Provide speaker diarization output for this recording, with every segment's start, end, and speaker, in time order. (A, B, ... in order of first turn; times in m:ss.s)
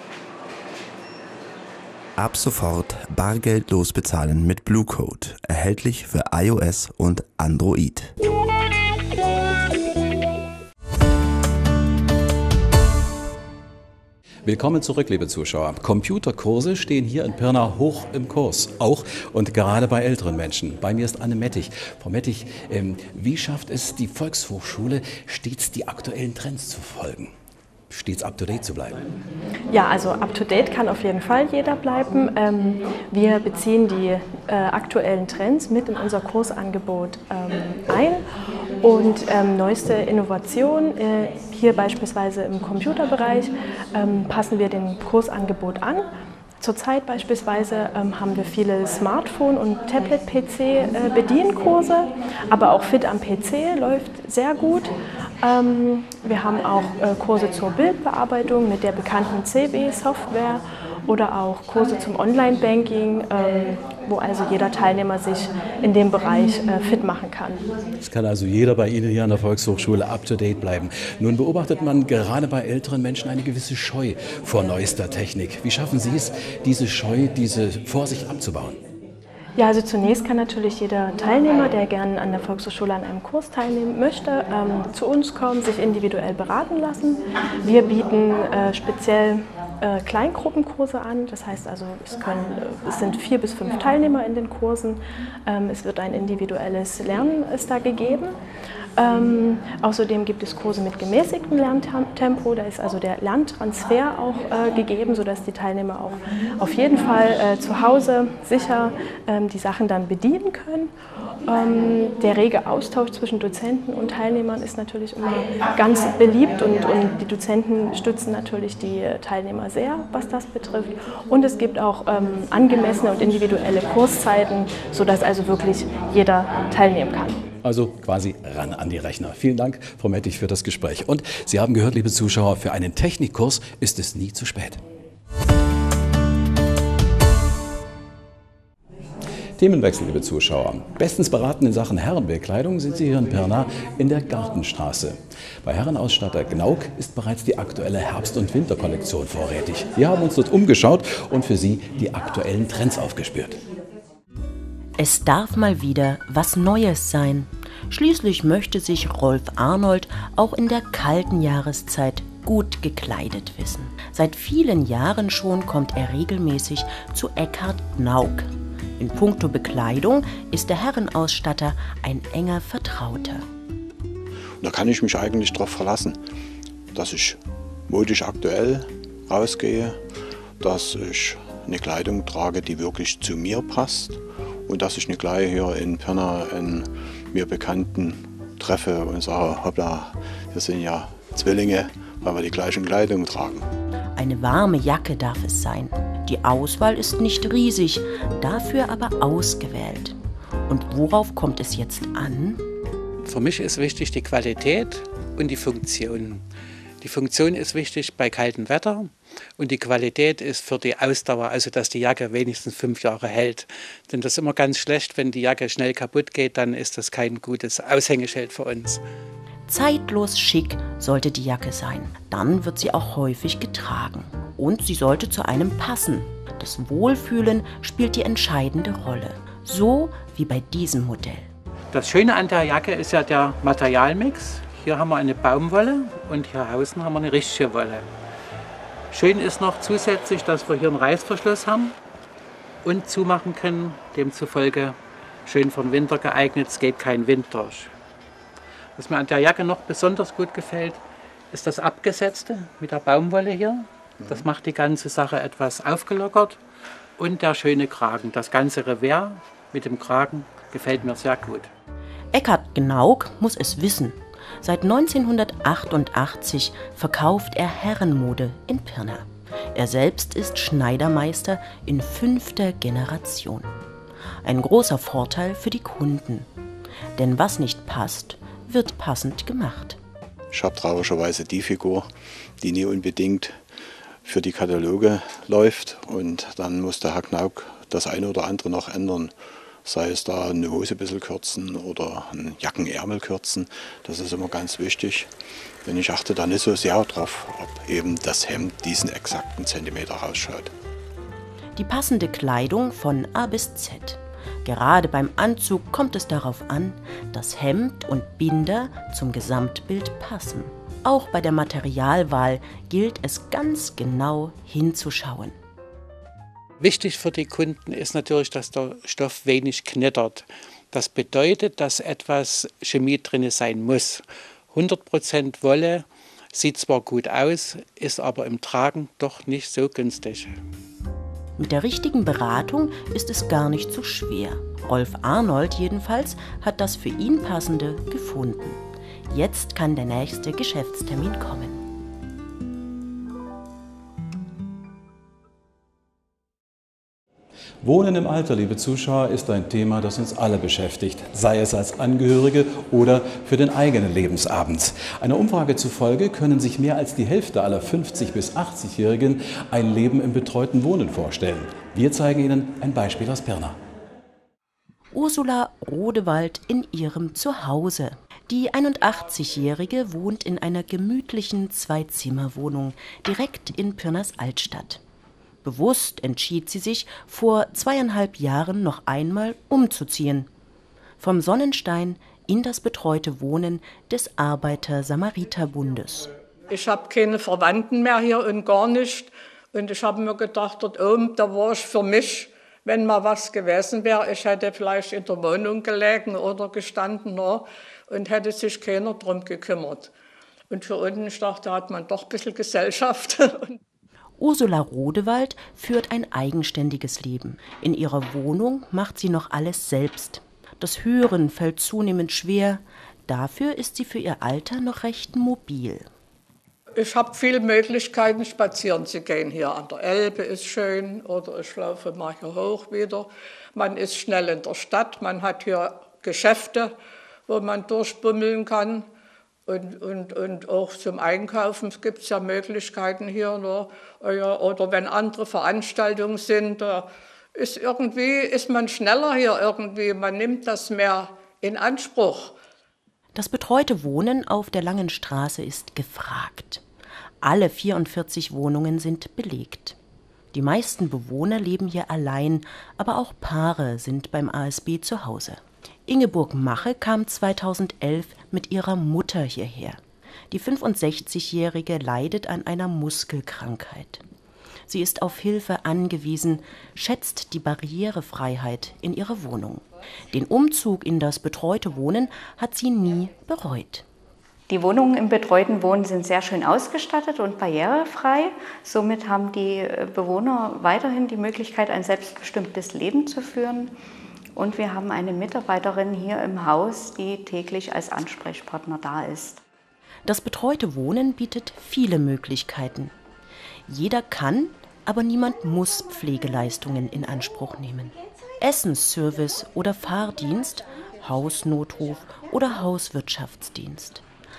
0:02.2-0:08.1 A
0:14.4-0:27.3 B
0:27.9-0:29.1 B
0:29.7-0:38.2 C
0:38.8-0:46.1 C
0:46.6-1:07.7 C
1:08.0-1:18.8 B
1:19.6-1:38.4 C
1:39.0-1:50.9 C
1:51.4-2:07.4 C
2:07.6-2:14.8 B
2:19.6-2:33.6 B
2:35.0-2:53.4 D
2:54.6-2:56.2 E
2:56.9-3:00.0 E
3:00.6-3:13.7 E
3:14.2-3:22.6 D
3:23.2-3:26.4 F
3:27.0-3:39.0 F
3:39.7-3:51.5 D
3:51.9-3:58.1 F
3:59.1-4:02.0 F
4:02.8-4:07.9 F
4:09.0-4:16.6 F
4:17.2-4:21.7 F
4:22.3-4:33.7 D
4:34.4-4:36.5 D
4:37.2-4:40.0 D
4:40.5-4:42.1 E
4:42.6-4:43.6 E
4:44.2-4:55.3 E
4:55.8-5:00.7 E
5:01.8-5:15.6 D
5:16.8-5:30.5 F
5:31.6-5:41.8 D
5:47.8-6:03.8 B
6:05.1-6:15.0 D
6:15.6-6:20.5 D
6:21.2-6:26.3 D
6:26.7-6:40.1 G
6:40.7-6:43.8 G
6:44.4-6:56.1 D
6:57.0-7:06.9 G
7:07.5-7:09.1 G
7:09.7-7:22.6 G
7:23.3-7:26.8 D
7:27.4-7:30.0 D
7:30.5-7:44.2 D
7:44.9-7:54.0 D
7:54.7-8:03.9 H
8:04.6-8:09.6 H
8:10.2-8:13.1 D
8:13.9-8:24.2 D